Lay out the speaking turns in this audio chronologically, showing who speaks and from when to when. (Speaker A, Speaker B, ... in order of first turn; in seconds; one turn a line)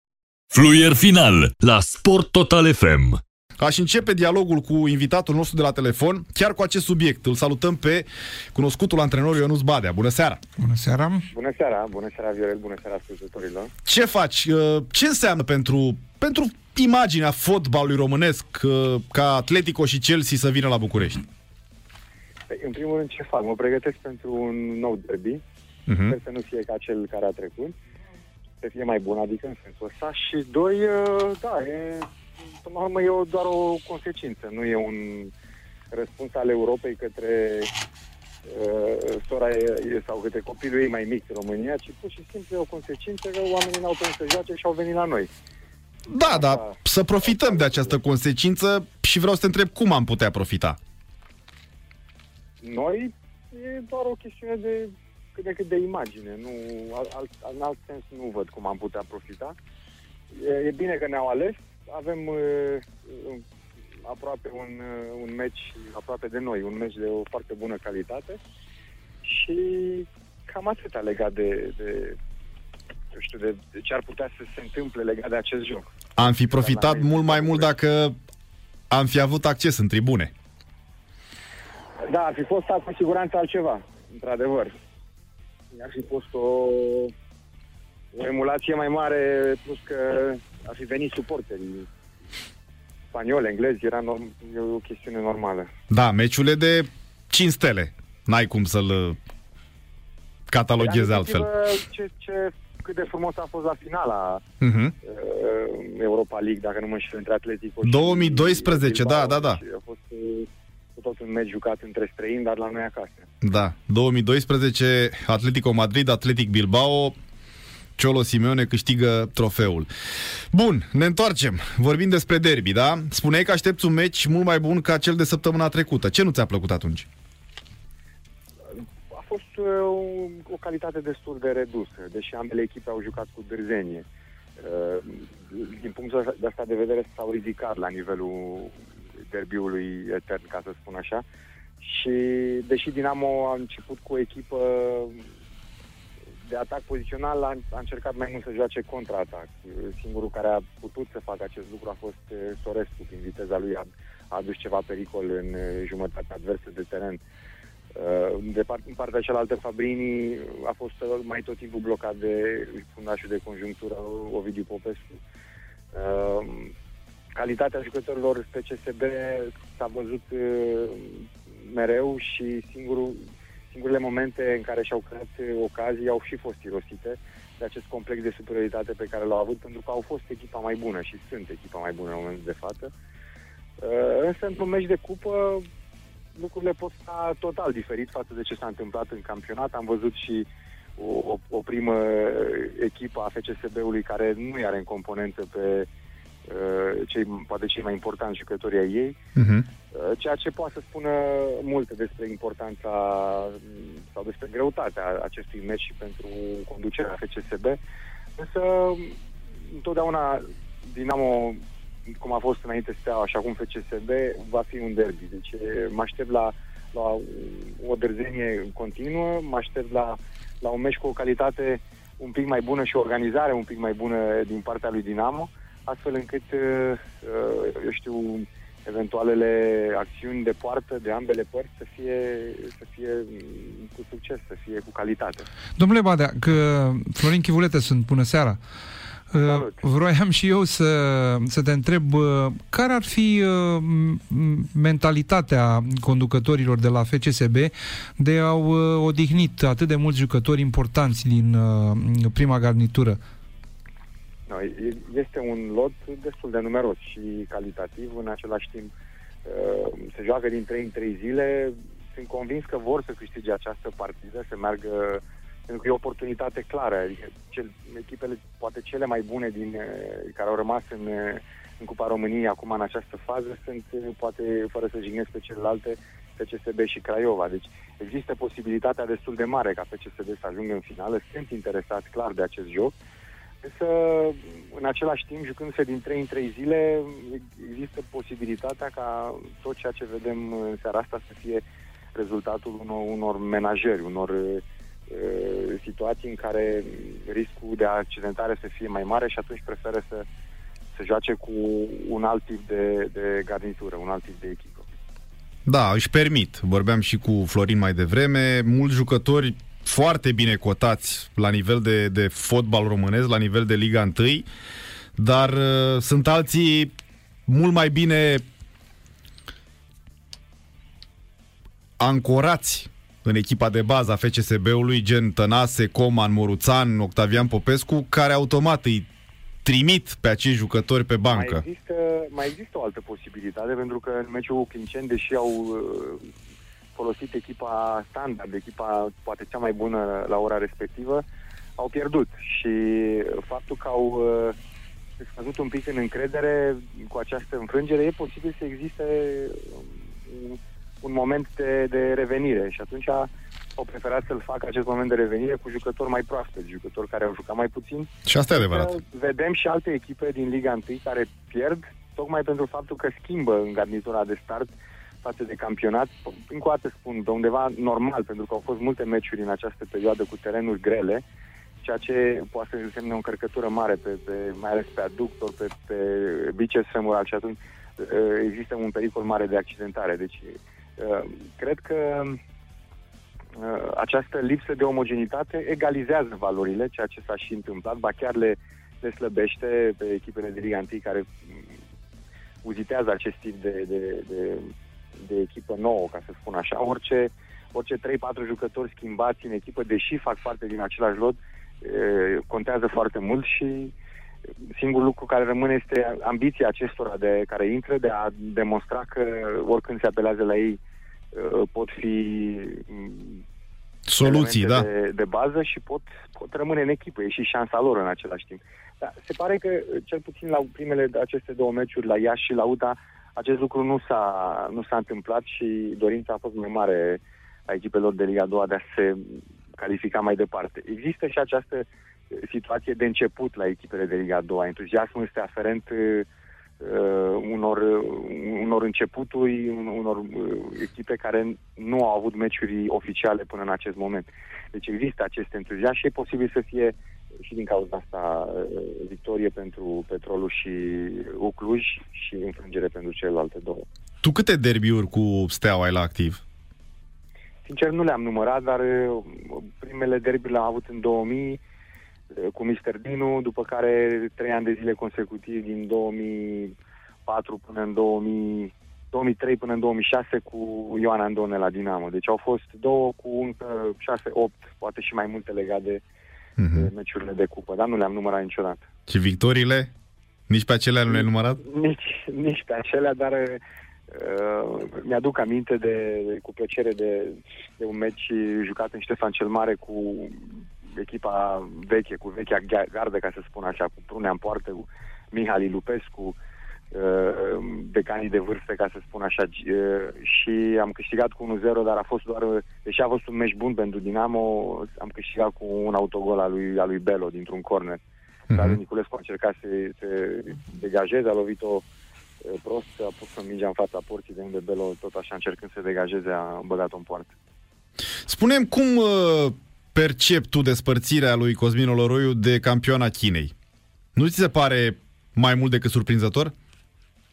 Speaker A: 0.5-3.2
Speaker B: 3.6-10.4
Speaker C: 10.6-11.3
Speaker D: 11.3-13.7
Speaker B: 13.9-21.2
Speaker D: 22.5-25.4
Speaker B: 25.9-26.2
Speaker D: 26.1-27.8
Speaker D: 28.6-32.1
Speaker D: 32.6-35.3
Speaker D: 35.9-37.7
Speaker D: 38.5-45.3
Speaker B: 46.1-50.8
Speaker D: 46.3-48.0
Speaker D: 52.6-59.5
Speaker D: 60.3-63.4
Speaker D: 64.0-68.4
Speaker D: 69.2-72.2
Speaker D: 73.1-77.7
Speaker B: 76.2-78.2
Speaker B: 78.9-80.3
Speaker D: 82.0-84.7
Speaker D: 85.7-87.1
Speaker D: 88.1-91.9
Speaker D: 93.1-95.7
Speaker B: 95.9-99.2
Speaker B: 100.5-101.5
Speaker D: 100.8-104.4
Speaker B: 104.6-104.9
Speaker D: 105.0-113.3
Speaker B: 107.8-109.6
Speaker B: 113.4-117.2
Speaker B: 118.0-119.9
Speaker B: 120.5-127.1
Speaker D: 128.8-134.1
Speaker D: 134.6-141.2
Speaker D: 141.8-145.3
Speaker D: 146.4-157.2
Speaker D: 157.9-165.2
Speaker D: 165.9-166.7
Speaker D: 167.3-182.9
Speaker D: 183.8-185.7
Speaker D: 186.3-195.9
Speaker D: 196.5-199.2
Speaker B: 199.4-199.7
Speaker D: 199.9-207.8
Speaker D: 208.4-211.6
Speaker D: 212.2-235.5
Speaker C: 235.8-238.6
Speaker C: 239.3-253.2
Speaker D: 239.4-239.8
Speaker D: 254.5-258.9
Speaker D: 259.4-282.9
Speaker D: 283.6-300.3
Speaker D: 300.9-304.9
Speaker B: 305.7-314.5
Speaker B: 315.2-316.9
Speaker B: 317.5-318.4
Speaker B: 322.0-329.1
Speaker B: 329.6-331.6
Speaker D: 331.3-336.3
Speaker D: 336.9-341.2
Speaker D: 341.8-344.6
Speaker D: 345.2-371.2
Speaker B: 358.3-358.9
Speaker D: 371.8-382.4
Speaker D: 383.6-391.8
Speaker D: 392.6-403.9
Speaker D: 404.7-410.8
Speaker D: 411.3-413.4
Speaker B: 414.1-414.9
Speaker D: 414.2-436.3
Speaker D: 436.8-453.9
Speaker B: 454.2-456.4
Speaker D: 457.6-461.6
Speaker D: 462.3-476.0
Speaker B: 476.6-476.9
Speaker D: 476.7-478.9
Speaker B: 479.1-479.9
Speaker B: 480.5-481.6
Speaker D: 481.1-496.4
Speaker D: 496.9-508.0
Speaker B: 508.5-508.8
Speaker D: 508.5-511.9
Speaker D: 512.5-517.3
Speaker B: 518.3-523.5
Speaker B: 524.1-526.5